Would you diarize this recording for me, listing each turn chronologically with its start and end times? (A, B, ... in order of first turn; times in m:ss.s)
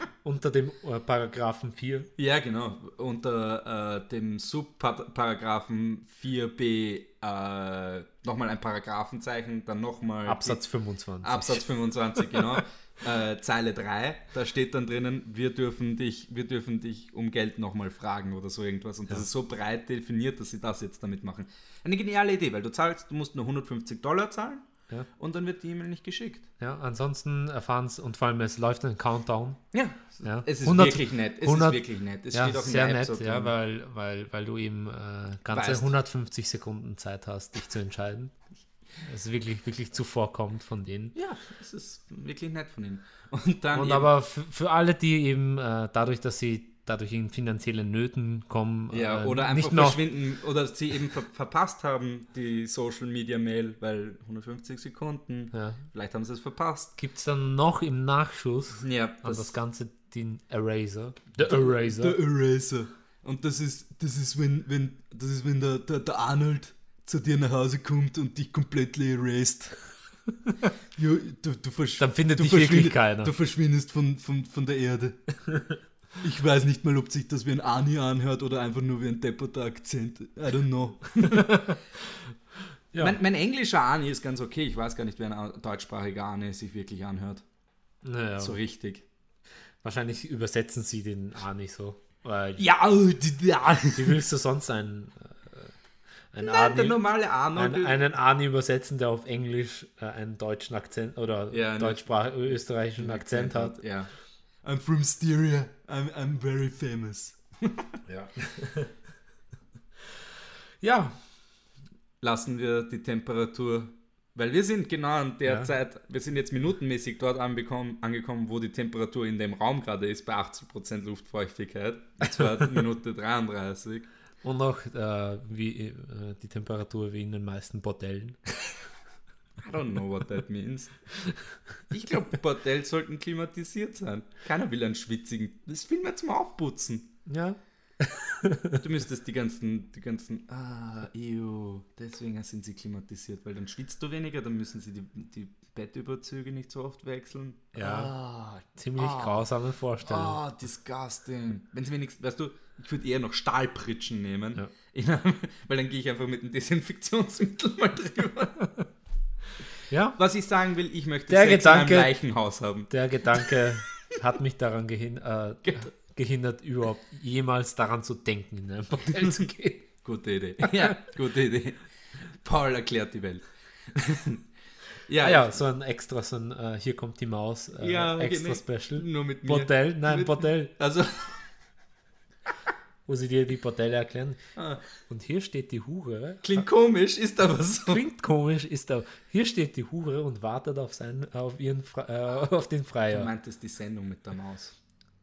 0:00.2-0:02.1 A
0:02.2-0:10.6 B
0:10.2-0:12.6 A
0:11.2-0:24.6 B
0:25.2-0:26.5 B
0:26.6-0:29.6 A
0:29.7-0:33.5 B
0:30.2-0:31.8 A
0:32.3-0:38.3 A
0:35.5-0:35.9 B
0:39.0-0:41.1 A
0:41.1-0:44.1 B
0:43.7-0:50.0 A
0:48.9-0:56.9 B
0:55.5-0:55.8 A
0:57.0-1:02.2 A
0:58.8-0:59.5 B
1:01.4-1:09.9 B
1:10.9-1:15.2 B
1:12.0-1:13.3 A
1:16.2-1:21.6 B
1:21.2-1:21.8 A
1:22.9-1:23.2 A
1:23.0-1:27.4 B
1:28.0-1:28.6 A
1:28.4-1:29.0 B
1:29.8-1:32.6 A
1:32.6-1:34.2 B
1:33.9-1:35.7 A
1:36.3-1:37.0 A
1:36.4-1:38.0 B
1:37.5-1:43.8 A
1:41.5-1:42.2 B
1:43.0-1:44.1 B
1:44.6-1:48.0 B
1:48.1-1:48.9 A
1:50.8-1:51.2 A
1:52.2-2:04.1 B
2:04.4-2:08.4 A
2:09.6-2:10.9 B
2:11.9-2:17.1 B
2:17.2-2:18.8 A
2:18.8-2:29.5 B
2:27.8-2:28.1 A
2:28.8-2:30.4 A
2:30.0-2:38.6 B
2:39.9-2:40.2 A
2:40.2-2:43.6 B
2:41.3-2:42.1 A
2:42.9-2:49.9 A
2:49.2-2:49.5 B
2:50.0-2:51.8 B
2:50.6-2:51.0 A
2:52.4-2:54.4 B
2:55.1-2:55.6 B
2:55.2-3:00.7 A
2:57.8-3:01.5 B
3:03.1-3:04.4 A
3:04.6-3:04.8 B
3:05.1-3:06.6 A
3:06.4-3:08.0 B
3:07.8-3:13.3 A
3:13.1-3:14.8 B